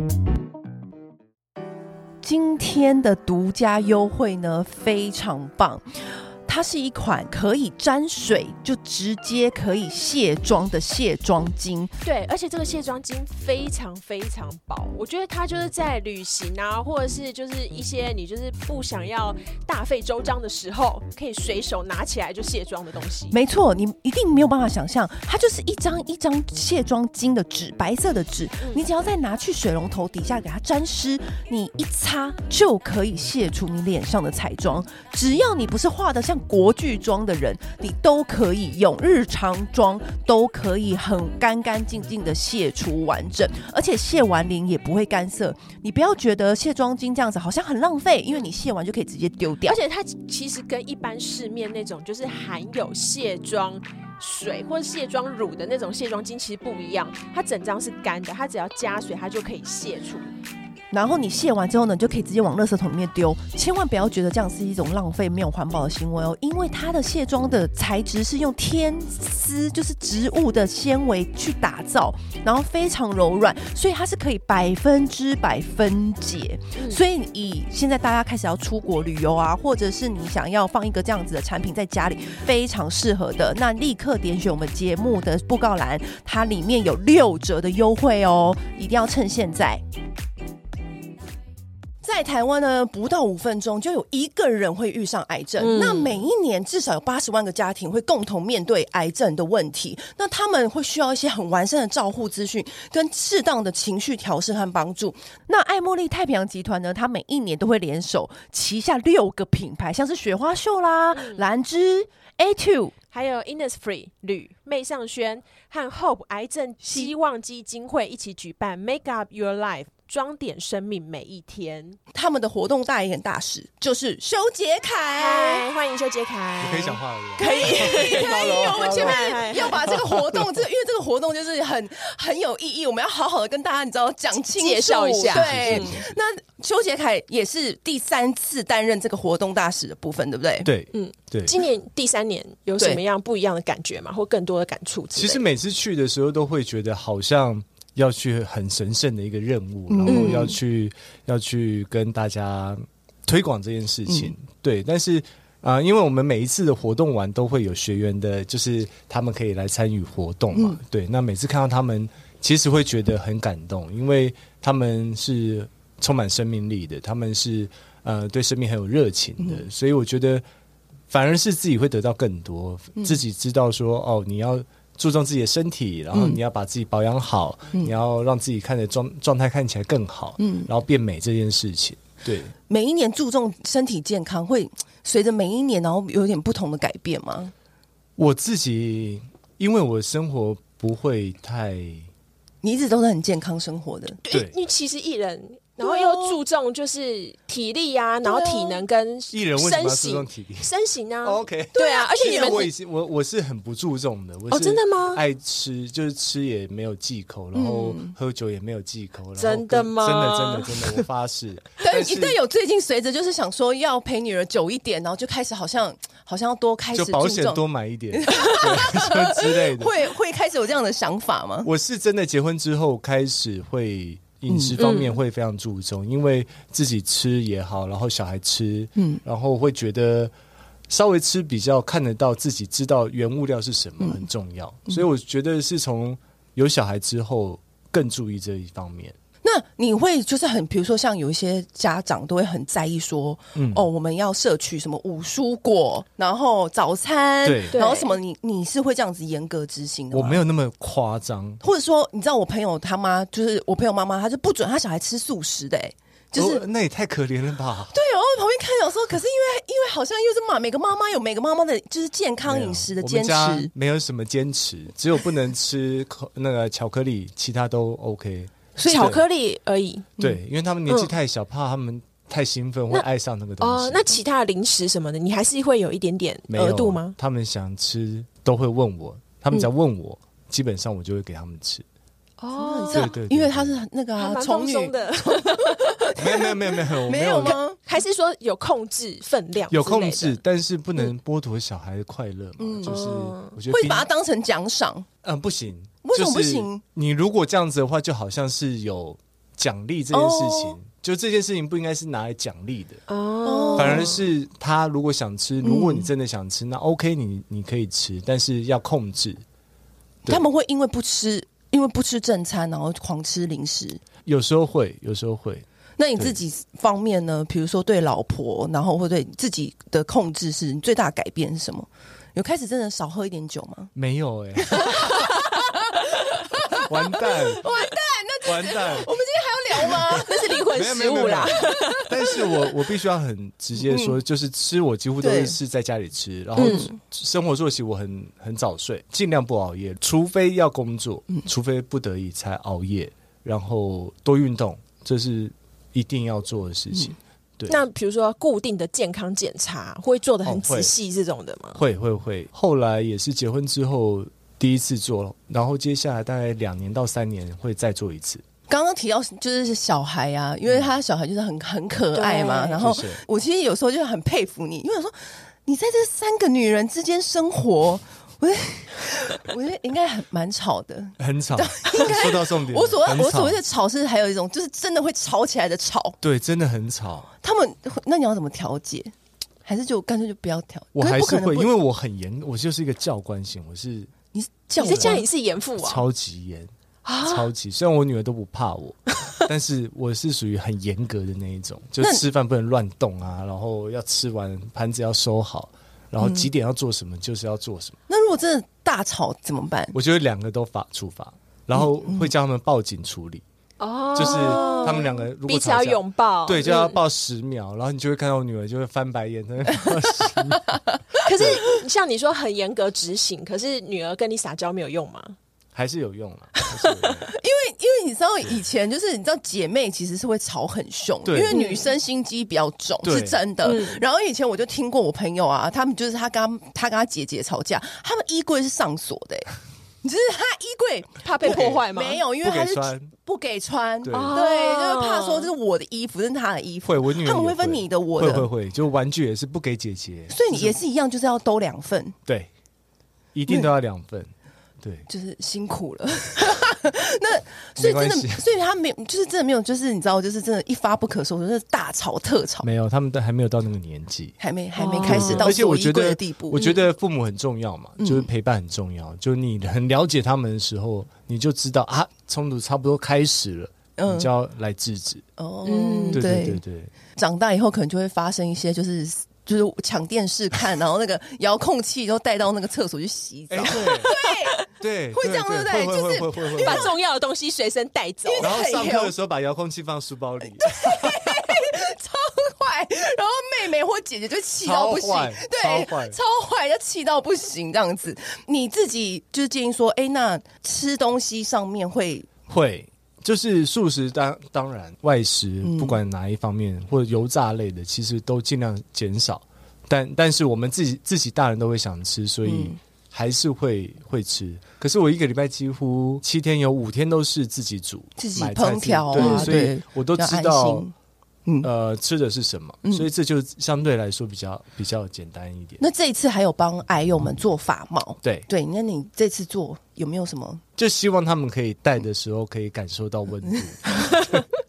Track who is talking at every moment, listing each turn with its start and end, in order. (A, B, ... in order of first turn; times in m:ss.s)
0:02.2-0:05.8 A
0:06.4-0:11.9 A
0:12.0-0:23.4 B
0:23.3-0:49.8 A
0:49.6-1:00.3 B
1:00.9-1:29.8 A
1:32.0-1:52.9 A
1:35.6-1:36.2 B
1:51.1-1:51.4 B
1:53.1-2:02.0 B
1:56.8-1:57.1 A
2:02.1-2:05.6 A
2:05.2-2:09.8 B
2:06.6-2:10.4 C
2:07.4-2:20.7 A
2:14.4-2:16.0 B
2:15.3-2:16.2 C
2:20.6-2:21.6 C
2:20.9-2:25.4 B
2:25.1-2:50.4 C
2:29.9-2:30.5 A
2:30.1-2:30.5 B
2:51.1-3:02.5 C
2:56.1-2:56.4 A
3:00.4-3:00.7 A
3:02.7-3:07.5 A
3:08.2-3:12.1 C
3:12.6-3:14.2 A
3:14.2-3:22.7 B
3:14.3-3:14.5 C
3:15.8-3:16.4 A
3:18.2-3:18.8 A
3:19.3-3:20.7 C
3:21.2-3:32.4 C
3:21.7-3:22.7 A
3:24.5-3:25.2 B
3:27.5-3:28.1 A
3:29.4-3:31.0 B
3:31.8-3:41.7 A
3:36.9-3:39.9 C
3:41.6-3:50.3 C
3:44.5-3:44.8 A
3:44.8-3:45.2 B
3:49.0-3:49.2 A
3:50.9-3:59.2 C
3:54.0-3:54.2 A
3:59.4-4:10.4 A
4:03.6-4:03.9 C
4:07.4-4:07.8 C
4:07.7-4:08.2 B
4:10.1-4:11.6 C
4:11.6-4:16.6 A
4:16.3-4:17.9 C
4:17.9-4:23.7 A
4:22.4-4:29.2 C
4:28.8-4:29.2 A
4:28.9-4:30.1 B
4:30.2-4:34.2 C
4:30.9-4:31.1 B
4:33.6-4:37.1 B
4:36.5-4:41.8 C
4:42.4-4:43.1 B
4:42.5-4:47.8 A
4:42.9-4:43.7 C
4:44.2-4:46.0 B
4:46.2-4:47.6 C
4:47.4-4:50.4 B
4:49.7-4:54.1 C
4:52.6-4:53.0 A
4:52.8-4:53.5 B
4:53.7-4:55.0 A
4:55.2-5:03.0 C
4:56.0-4:56.8 A
5:00.1-5:00.8 A
5:03.1-5:04.1 B
5:03.4-5:04.2 A
5:03.8-5:09.4 C
5:05.6-5:06.1 A
5:10.3-5:14.0 A
5:14.2-5:15.6 C
5:16.0-5:23.9 A
5:23.9-5:25.3 C
5:24.6-5:30.6 A
5:26.8-5:27.6 C
5:28.4-5:29.1 C
5:30.1-5:32.1 B
5:30.7-5:47.8 C
5:31.9-5:32.4 A
5:33.8-5:34.1 A
5:35.2-5:35.5 A
5:36.6-5:36.9 B
5:36.6-5:37.0 A
5:47.7-5:51.8 B
5:50.4-5:50.9 C
5:51.7-5:58.4 C
5:58.7-6:16.2 A
6:02.1-6:02.8 B
6:02.8-6:03.2 C
6:11.2-6:13.6 C
6:16.2-6:17.3 C
6:17.4-6:19.1 A
6:19.6-6:21.7 A
6:20.9-6:24.1 C
6:24.3-6:25.2 A
6:24.8-6:26.0 B
6:24.8-6:25.3 C
6:25.8-6:38.0 C
6:27.0-6:27.5 B
6:36.2-6:36.5 A
6:38.1-6:40.0 A
6:39.9-6:43.4 C
6:41.8-6:42.3 A
6:43.8-6:47.0 B
6:44.1-6:51.6 C
6:44.5-6:45.1 A
6:51.2-6:55.4 B
6:55.7-6:57.3 C
6:56.7-6:57.2 B
6:57.3-7:18.5 A
7:01.2-7:01.6 C
7:01.5-7:01.9 B
7:03.0-7:03.4 C
7:03.6-7:04.0 B
7:11.2-7:12.2 B
7:12.4-7:13.1 C
7:14.0-7:14.4 C
7:14.1-7:15.5 B
7:16.8-7:20.8 C
7:20.3-7:22.2 A
7:23.3-7:25.1 C
7:25.1-7:32.7 A
7:27.8-7:28.4 C
7:32.6-7:34.4 C
7:34.4-7:36.7 A
7:34.8-7:35.5 B
7:35.0-7:45.2 C
7:38.0-7:38.3 A
7:44.0-7:44.3 A
7:45.4-7:46.6 A
7:45.6-7:46.2 B
7:46.1-7:46.9 C
7:47.2-7:54.6 A
7:53.5-7:54.1 C
7:53.7-7:54.6 B
7:54.7-7:56.9 C
7:55.1-7:56.9 A
7:56.6-7:58.5 B
7:58.2-7:59.1 A
7:58.4-8:01.5 C
8:00.6-8:12.3 A
8:04.6-8:06.2 C
8:12.5-8:30.8 C
8:15.6-8:16.0 A
8:22.4-8:22.8 A
8:28.2-8:30.9 A
8:29.1-8:29.5 B
8:31.6-8:35.8 C
8:35.8-8:40.6 A
8:38.2-8:38.5 C
8:40.8-8:44.4 C
8:44.0-8:44.3 B